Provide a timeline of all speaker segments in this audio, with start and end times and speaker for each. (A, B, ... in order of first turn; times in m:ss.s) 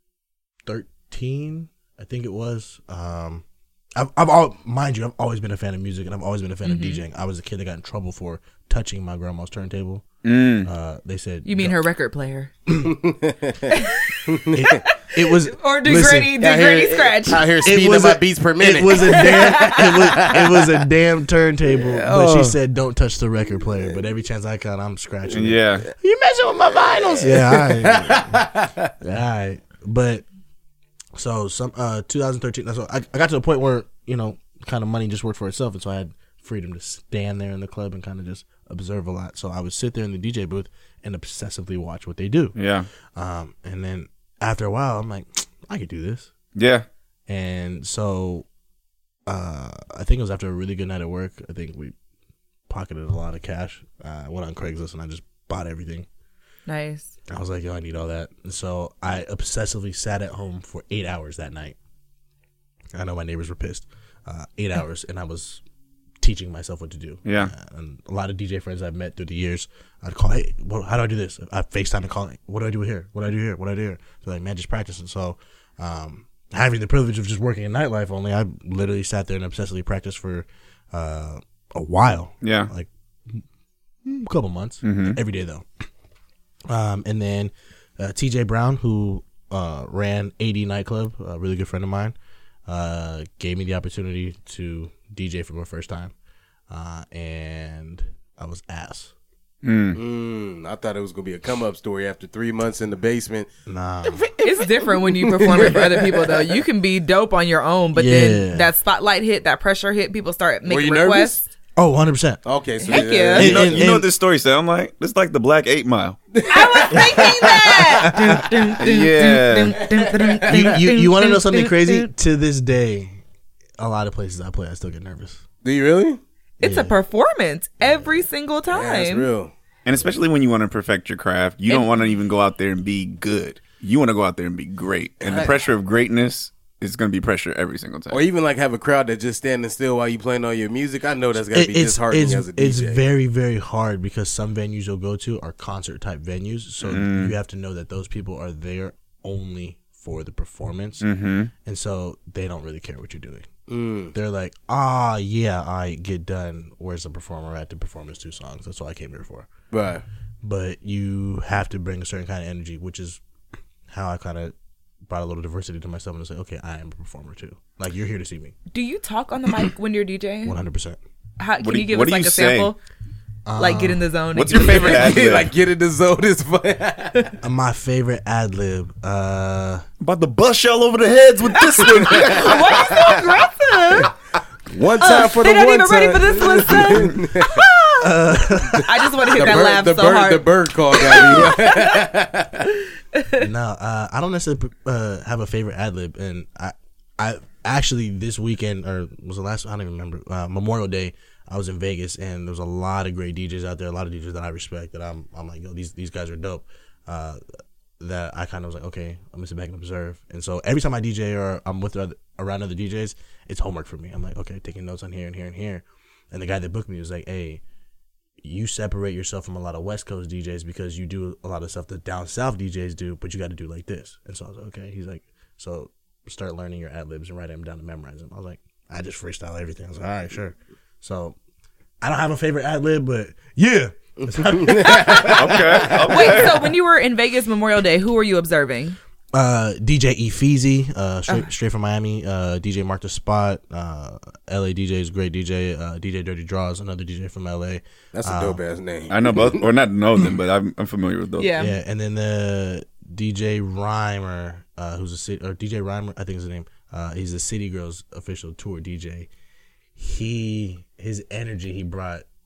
0:00.6-0:03.4 A
0:04.0-0:10.1 A
0:06.6-0:07.0 B
0:10.2-0:10.7 C
0:10.6-0:11.8 A
0:11.4-0:12.5 B
0:12.8-0:13.7 D
0:13.7-0:14.3 B
0:14.2-0:14.8 D
0:14.5-0:16.4 A
0:15.5-0:17.5 B
0:16.3-0:20.6 D
0:17.6-0:28.4 A
0:19.0-0:19.8 B
0:21.6-0:22.6 D
0:25.3-0:25.9 C
0:26.9-0:28.9 D
0:29.0-0:30.2 A
0:31.1-0:42.6 A
0:42.6-0:42.9 C
0:43.1-0:46.3 A
0:46.5-0:46.9 C
0:47.3-0:48.4 A
0:49.3-0:51.9 A
0:52.7-0:56.0 A
0:56.7-0:57.2 B
0:57.3-1:01.8 A
1:02.9-1:05.6 A
1:06.2-1:23.4 A
1:07.2-1:07.5 C
1:22.4-1:22.7 C
1:24.0-1:25.6 A
1:24.8-1:25.2 C
1:26.7-1:32.1 A
1:32.7-1:36.1 A
1:36.7-1:39.1 A
1:39.6-1:40.0 C
1:39.9-1:43.5 D
1:43.7-1:44.3 A
1:44.2-1:46.6 D
1:44.4-1:51.4 B
1:47.9-1:48.7 A
1:50.6-1:51.4 D
1:51.8-1:52.4 A
1:52.4-1:53.9 D
1:52.9-1:56.2 C
1:52.9-1:53.6 B
1:53.3-1:54.1 A
1:56.4-1:58.2 D
1:56.5-2:02.1 B
1:58.8-1:59.8 C
1:59.8-2:00.5 D
2:00.4-2:03.2 A
2:03.8-2:05.4 A
2:05.6-2:06.2 D
2:06.6-2:09.3 B
2:06.6-2:07.0 A
2:08.7-2:09.5 D
2:09.8-2:18.2 C
2:11.7-2:11.9 B
2:15.2-2:15.6 D
2:18.1-2:23.0 D
2:21.5-2:31.0 A
2:26.8-2:27.4 C
2:31.0-2:31.5 C
2:31.6-2:33.5 A
2:33.7-2:34.1 D
2:34.1-2:39.5 A
2:39.7-2:40.0 D
2:40.4-2:43.2 A
2:43.9-2:44.5 A
2:45.1-2:48.5 A
2:48.7-2:50.6 B
2:50.4-2:51.0 A
2:51.4-2:52.8 B
2:51.6-2:52.7 C
2:53.4-2:54.1 A
2:53.6-2:55.1 B
2:54.3-2:55.5 C
2:54.7-2:57.3 D
2:57.4-2:59.8 A
3:00.0-3:03.2 C
3:02.1-3:04.1 B
3:04.7-3:07.6 D
3:05.0-3:12.0 B
3:08.0-3:09.6 A
3:09.3-3:12.7 D
3:13.4-3:27.4 A
3:28.0-3:37.6 A
3:38.4-3:51.4 A
3:52.0-3:55.3 A
3:54.2-3:56.0 D
3:55.2-3:56.7 C
3:56.1-3:59.0 B
3:59.3-4:08.6 A
4:08.1-4:09.6 D
4:09.1-4:11.6 C
4:11.4-4:11.7 B
4:11.6-4:19.3 A
4:20.0-4:22.2 A